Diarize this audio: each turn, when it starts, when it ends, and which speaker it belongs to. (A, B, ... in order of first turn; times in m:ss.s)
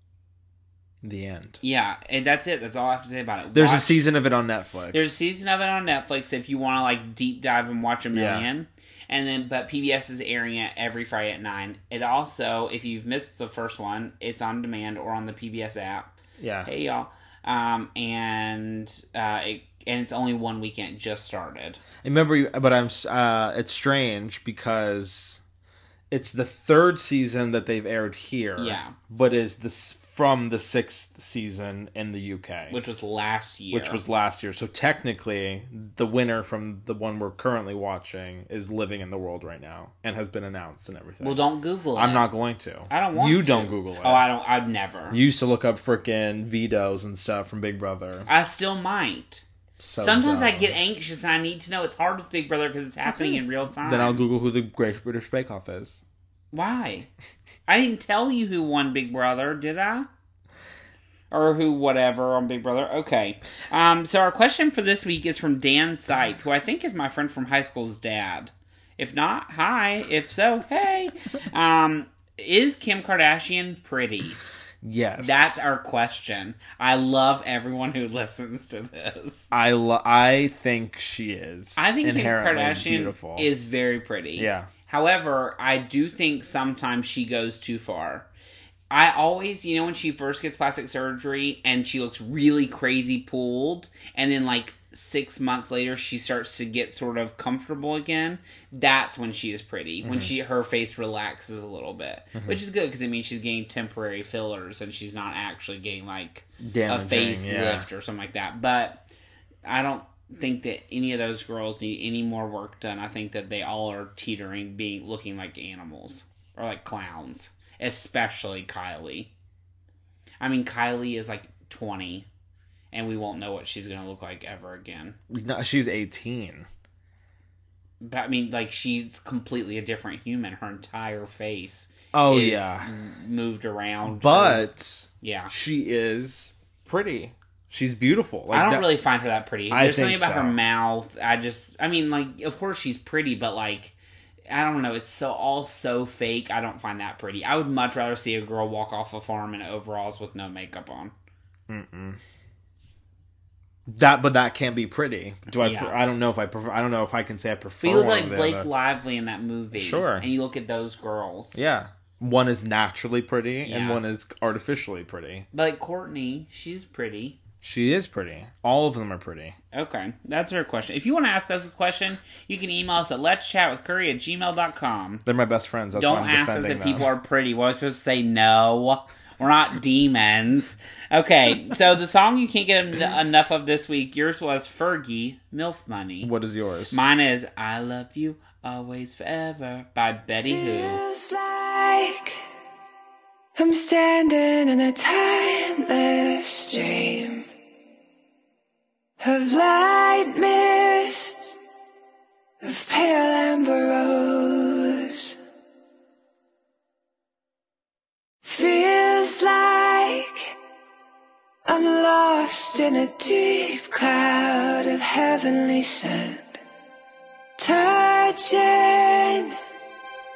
0:01.0-0:01.6 A
0:01.6-0:04.1 B
0:03.5-0:05.2 A
0:04.9-0:16.1 B
0:08.1-0:08.5 A
0:16.4-0:16.7 A
0:16.6-0:21.8 B
0:22.0-0:25.4 A
0:26.1-0:32.8 A
0:28.6-0:29.0 B
0:32.7-0:34.0 B
0:33.7-0:41.4 A
0:41.2-0:42.3 B
0:42.0-0:44.3 A
0:42.9-0:45.2 B
0:45.1-0:48.3 A
0:48.3-0:49.4 B
0:49.8-0:50.8 A
0:50.0-0:54.2 B
0:53.8-0:56.0 A
0:56.5-0:57.1 B
0:57.7-1:00.1 B
1:01.3-1:14.4 B
1:14.8-1:15.7 A
1:15.2-1:19.5 B
1:19.5-1:23.5 A
1:21.8-1:28.3 B
1:24.4-1:24.7 A
1:28.9-1:49.1 B
1:40.0-1:40.3 A
1:46.6-1:47.9 A
1:49.6-1:59.3 B
2:00.4-2:02.3 B
2:02.9-2:05.2 B
2:05.3-2:06.7 A
2:08.0-2:14.7 B
2:12.1-2:12.9 A
2:14.1-2:18.9 A
2:15.2-2:15.5 B
2:18.5-2:24.0 B
2:19.7-2:20.6 A
2:24.5-2:31.1 B
2:31.7-2:32.2 A
2:33.9-2:38.7 A
2:35.5-2:36.0 B
2:37.8-2:41.6 B
2:39.7-2:40.3 A
2:41.5-2:45.5 A
2:43.7-2:44.0 B
2:45.5-2:47.4 B
2:47.6-2:49.6 A
2:49.7-2:55.2 B
2:55.2-2:57.1 A
2:55.9-3:06.3 B
3:06.2-3:07.0 A
3:06.9-3:11.0 B
3:10.4-3:12.4 C
3:13.6-3:17.5 C
3:19.2-3:21.6 C
3:22.6-3:25.4 C
3:28.4-3:30.5 C
3:31.7-3:36.6 C
3:37.6-3:39.5 C